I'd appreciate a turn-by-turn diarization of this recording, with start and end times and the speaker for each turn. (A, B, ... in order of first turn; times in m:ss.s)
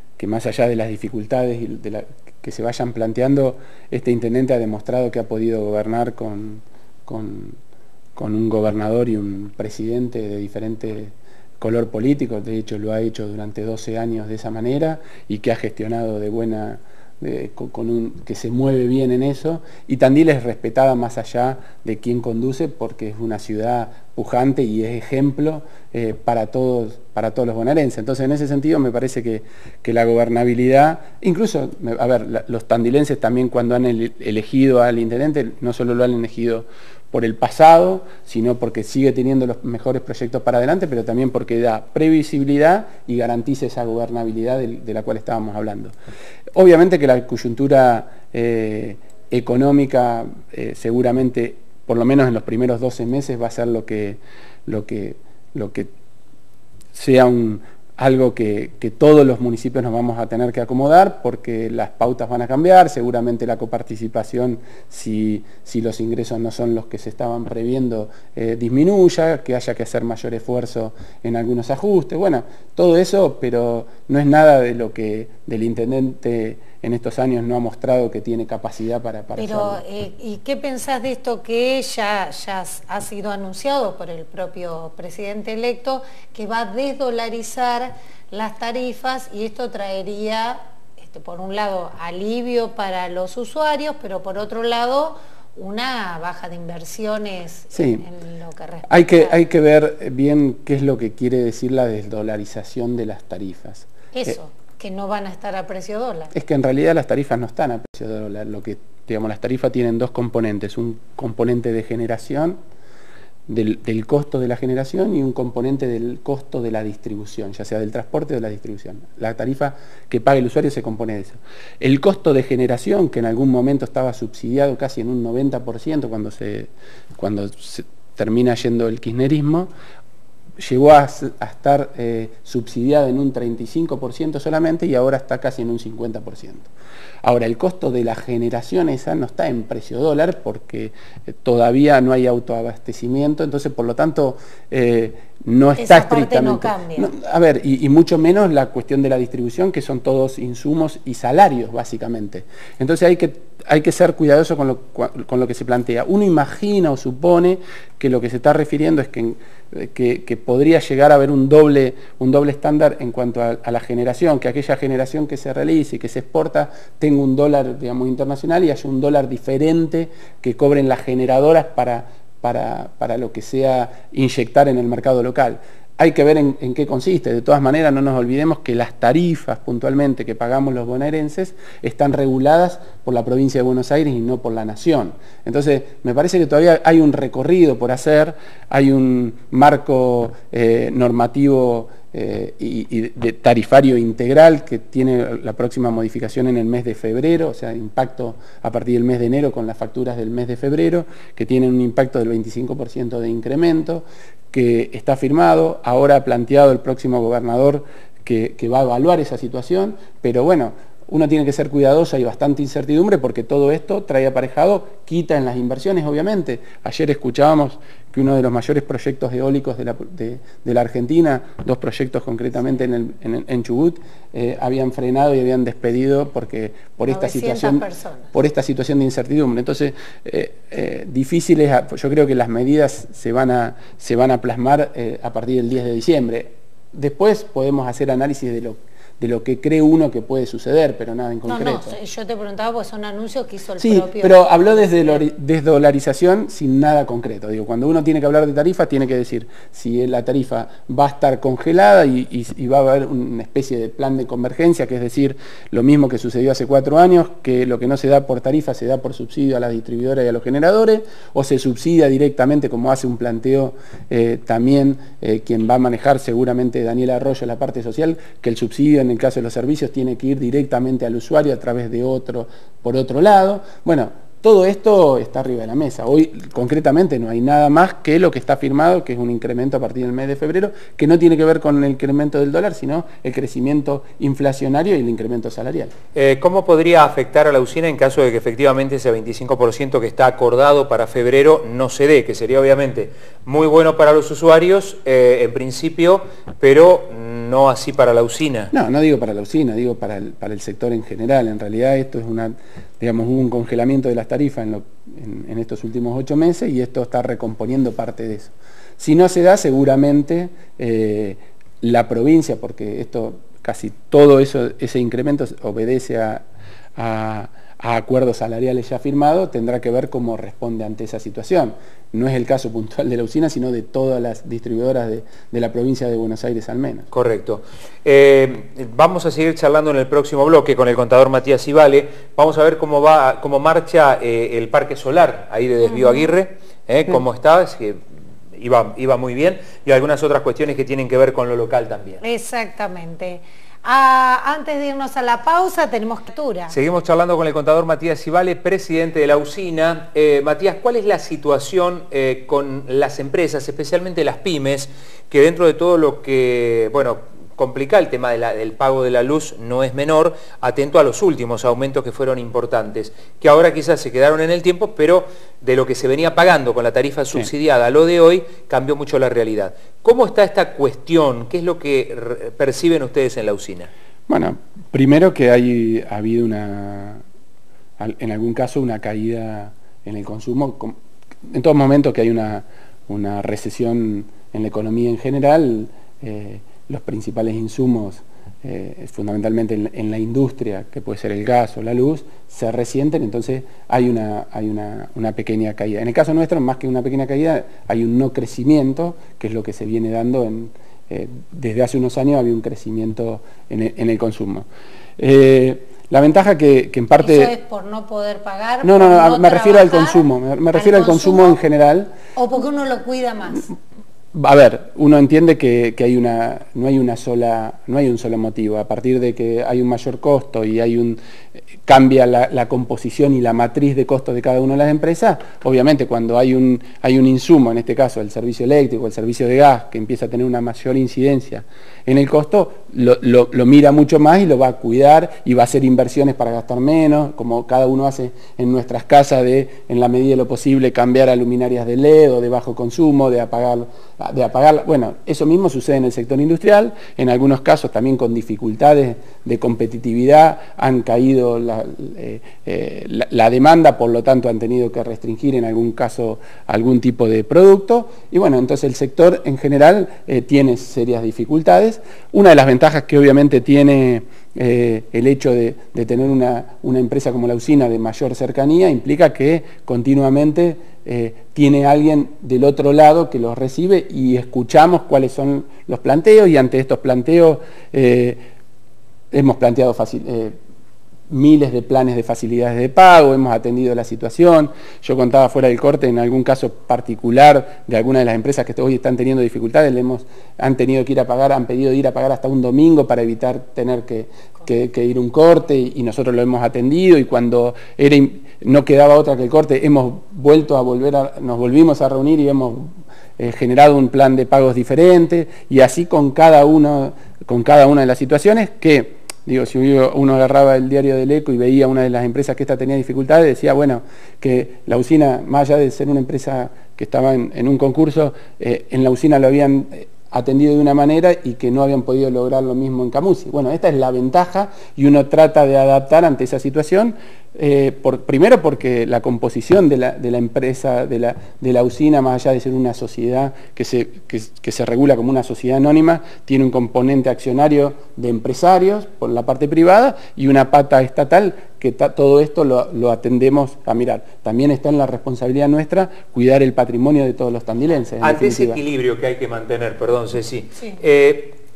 0:00.2-0:07.6 A
0:08.1-0:45.9 A
0:46.5-0:55.9 A
0:56.9-1:19.8 A
1:19.4-1:39.4 B
1:37.7-1:38.0 A
1:38.9-1:44.4 A
1:44.1-1:46.3 B
1:46.3-1:52.6 A
1:53.5-2:09.7 A
2:10.6-2:16.7 A
2:17.2-4:02.0 A
2:25.8-2:27.1 B
3:47.1-3:48.3 B
4:01.4-4:05.2 B
4:03.8-4:45.9 A
4:46.1-4:58.7 C
4:58.7-5:16.4 A
5:17.0-5:27.1 A
5:27.1-5:38.0 C
5:35.8-5:36.3 B
5:38.5-5:42.2 C
5:42.2-5:46.8 B
5:46.7-6:13.9 C
6:14.3-6:17.2 A
6:18.0-6:20.9 A
6:21.5-6:44.7 A
6:45.2-6:47.5 A
6:47.2-6:51.6 B
6:48.8-6:52.1 A
6:52.3-6:53.7 B
6:54.3-7:01.2 A
7:01.8-7:58.4 A
7:59.3-8:00.6 A
8:01.3-9:08.8 A
9:08.2-9:11.6 C